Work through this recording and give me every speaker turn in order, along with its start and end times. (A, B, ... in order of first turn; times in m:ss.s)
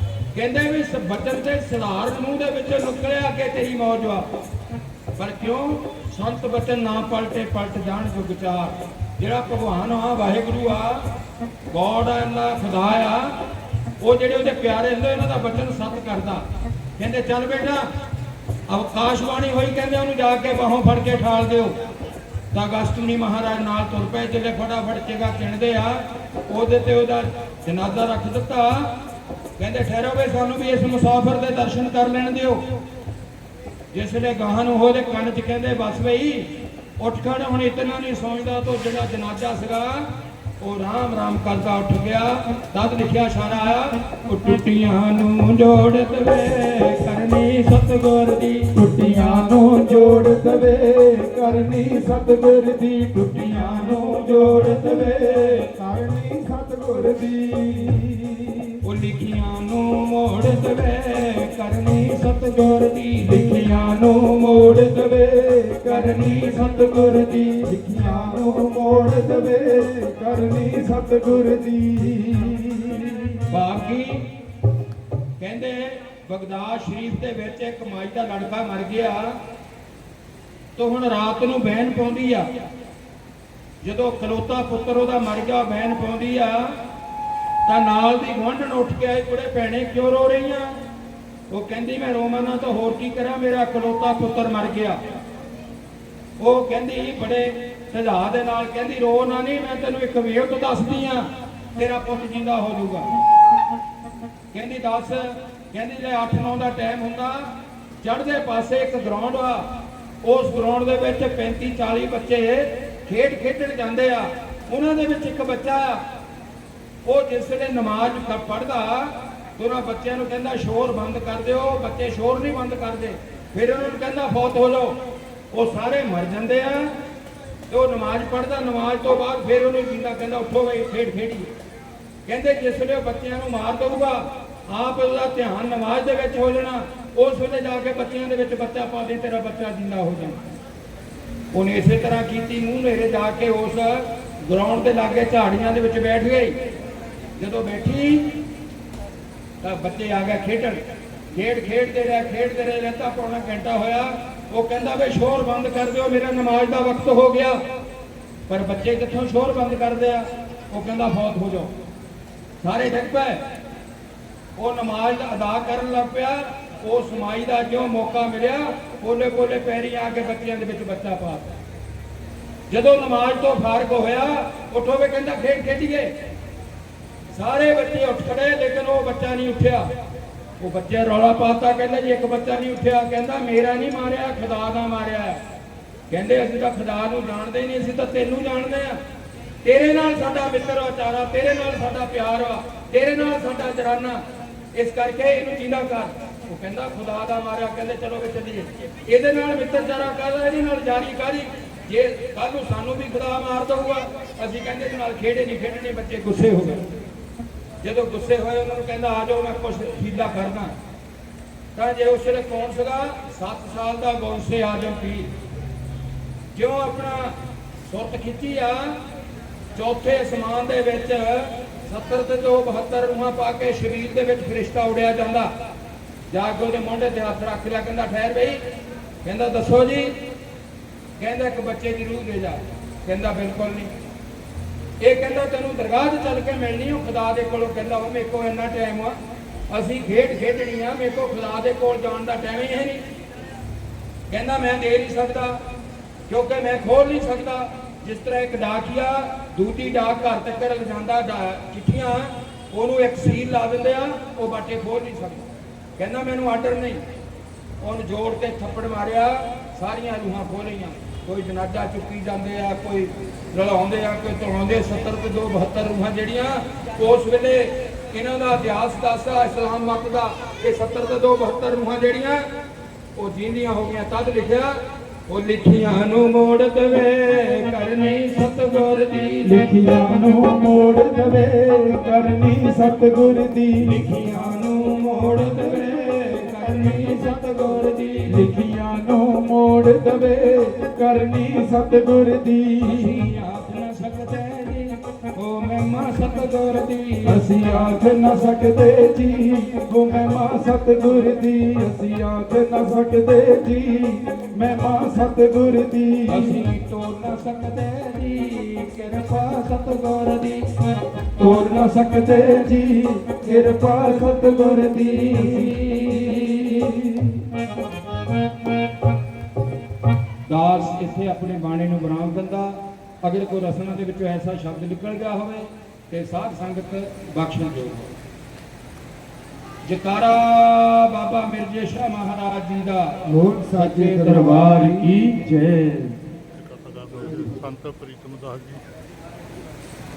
0:00.3-0:04.3 A
0:05.2-0:11.1 A
0:11.7-0:13.4 A
0:14.0-0:16.4 A
0:17.0-0:17.9 A
0:18.7-0:21.8 A
0:22.5-0:28.9 A
0:29.6-0:32.6 A
0:33.9-0:40.1 A
0:40.6-0:48.7 A
0:48.7-0:58.8 B
0:53.8-0:55.3 A
0:58.8-1:03.7 A
1:03.2-1:13.4 B
1:05.8-1:06.9 A
1:13.5-1:14.3 A
1:15.4-1:19.4 A
1:20.8-1:22.5 A
1:23.8-1:26.8 A
1:27.7-1:30.8 A
1:31.5-1:35.0 A
1:36.4-1:43.1 A
1:44.5-1:49.7 A
1:50.2-1:56.0 A
1:57.0-2:05.0 A
2:05.5-2:07.0 A
2:07.7-2:11.5 A
2:12.3-2:20.4 A
2:21.5-2:26.6 A
2:27.4-2:28.3 A
2:29.6-2:30.8 A
2:31.3-2:37.6 A
2:38.5-2:41.7 A
2:42.6-2:43.4 A
2:44.6-2:51.6 A
2:52.7-2:56.1 A
2:57.3-2:59.9 A
3:00.6-3:05.4 A
3:06.1-3:09.0 A
3:09.6-3:26.8 A
3:27.8-3:30.8 A
3:31.8-3:35.3 A
3:36.5-3:39.0 A
3:39.8-3:45.5 A
3:46.3-3:48.6 A
3:49.2-3:50.2 A
3:51.2-3:53.9 A
3:55.0-3:59.2 A
3:59.7-4:03.0 A
4:04.3-4:05.6 A
4:06.3-4:17.0 A
4:17.8-4:32.5 A
4:33.2-4:39.6 A
4:39.4-4:44.0 B
4:43.8-4:48.5 A
4:48.3-4:53.3 B
4:52.8-4:58.1 A
4:57.2-5:06.6 B
5:06.3-5:10.7 A
5:11.4-5:15.8 B
5:15.0-5:17.3 A
5:20.5-5:28.1 A
5:29.8-5:33.2 A
5:33.3-5:36.2 B
5:33.8-5:35.1 A
5:36.6-5:38.8 C